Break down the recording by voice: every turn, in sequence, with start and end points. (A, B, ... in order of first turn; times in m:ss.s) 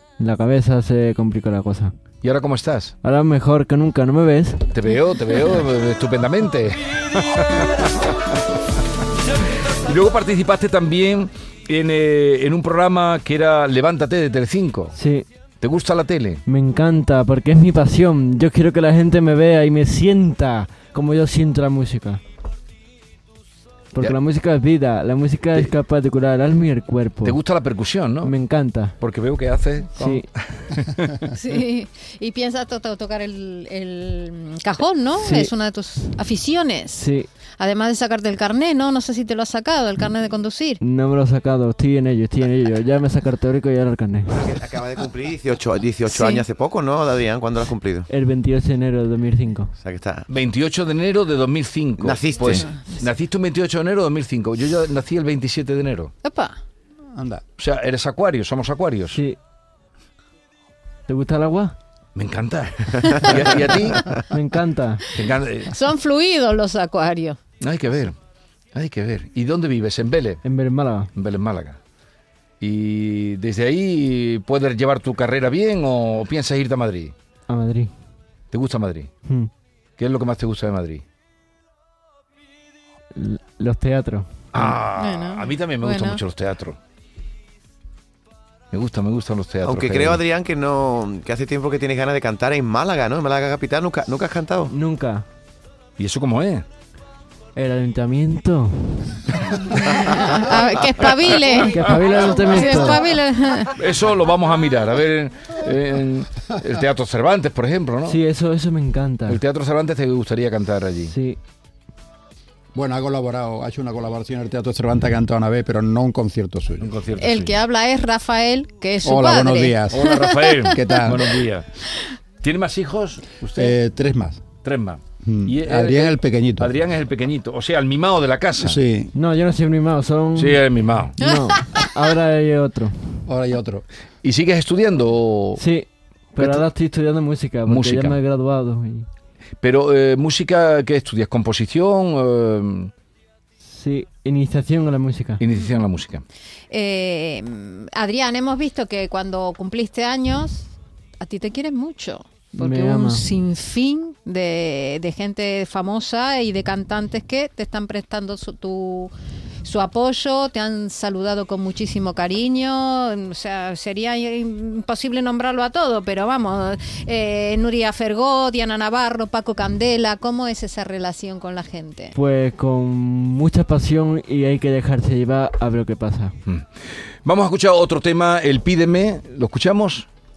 0:00.2-0:01.9 A
0:02.2-0:02.9 B
0:03.0-0:04.7 A
0:04.7-0:08.4 B
0:07.0-0:08.2 A
0:09.4-0:10.0 A
0:09.5-0:15.0 B
0:14.9-0:15.3 A
0:15.6-0:16.4 B
0:16.5-0:22.2 A
0:23.9-0:27.4 A
0:27.2-0:28.3 B
0:28.2-0:29.0 A
0:29.0-0:31.3 B
0:30.0-0:30.3 A
0:31.3-0:37.0 C
0:35.2-0:35.6 A
0:36.9-0:37.3 A
0:37.6-0:40.8 C
0:40.8-0:44.4 A
0:44.3-0:48.1 D
0:46.1-0:46.4 C
0:48.1-0:49.7 A
0:49.8-0:50.3 D
0:50.3-0:56.1 B
0:52.0-0:52.7 D
0:56.2-0:56.6 C
0:57.1-0:57.4 E
0:57.6-0:59.2 B
0:59.1-0:59.4 A
1:01.1-1:01.8 A
1:02.2-1:04.1 B
1:04.3-1:05.1 A
1:05.1-1:05.8 B
1:05.7-1:07.4 C
1:07.6-1:08.2 B
1:08.7-1:10.4 B
1:10.4-1:11.1 A
1:11.2-1:11.8 B
1:12.6-1:17.1 B
1:17.5-1:17.9 A
1:18.5-1:19.1 B
1:19.2-1:19.5 A
1:20.0-1:21.0 B
1:23.2-1:24.3 A
1:24.5-1:26.8 B
1:25.0-1:26.2 C
1:28.7-1:30.2 B
1:29.6-1:34.7 D
1:34.7-1:35.3 A
1:36.0-1:36.7 B
1:37.6-1:39.3 A
1:39.7-1:43.8 C
1:41.7-1:43.0 A
1:41.8-1:42.1 B
1:43.7-1:48.2 B
1:48.0-1:49.4 A
1:49.3-1:51.1 B
1:51.1-1:51.4 A
1:52.8-1:56.9 E
1:56.8-1:57.6 B
1:57.2-2:00.8 C
1:59.0-2:00.0 E
1:59.9-2:01.7 B
2:00.6-2:01.3 E
2:02.4-2:03.8 B
2:03.6-2:04.4 E
2:04.6-2:08.8 B
2:05.2-2:06.7 E
2:08.6-2:09.1 E
2:09.1-2:10.6 A
2:10.4-2:11.2 B
2:11.2-2:12.9 A
2:11.2-2:12.0 C
2:13.3-2:13.9 E
2:14.2-2:15.6 B
2:15.6-2:19.1 A
2:16.4-2:16.6 B
2:17.7-2:18.2 B
2:19.6-2:22.9 B
2:23.6-2:25.4 A
2:25.4-2:26.2 B
2:26.7-2:30.7 C
2:31.2-2:39.1 C
2:32.6-2:33.3 A
2:39.6-2:52.2 C
2:52.1-2:56.4 A
2:57.2-3:00.1 B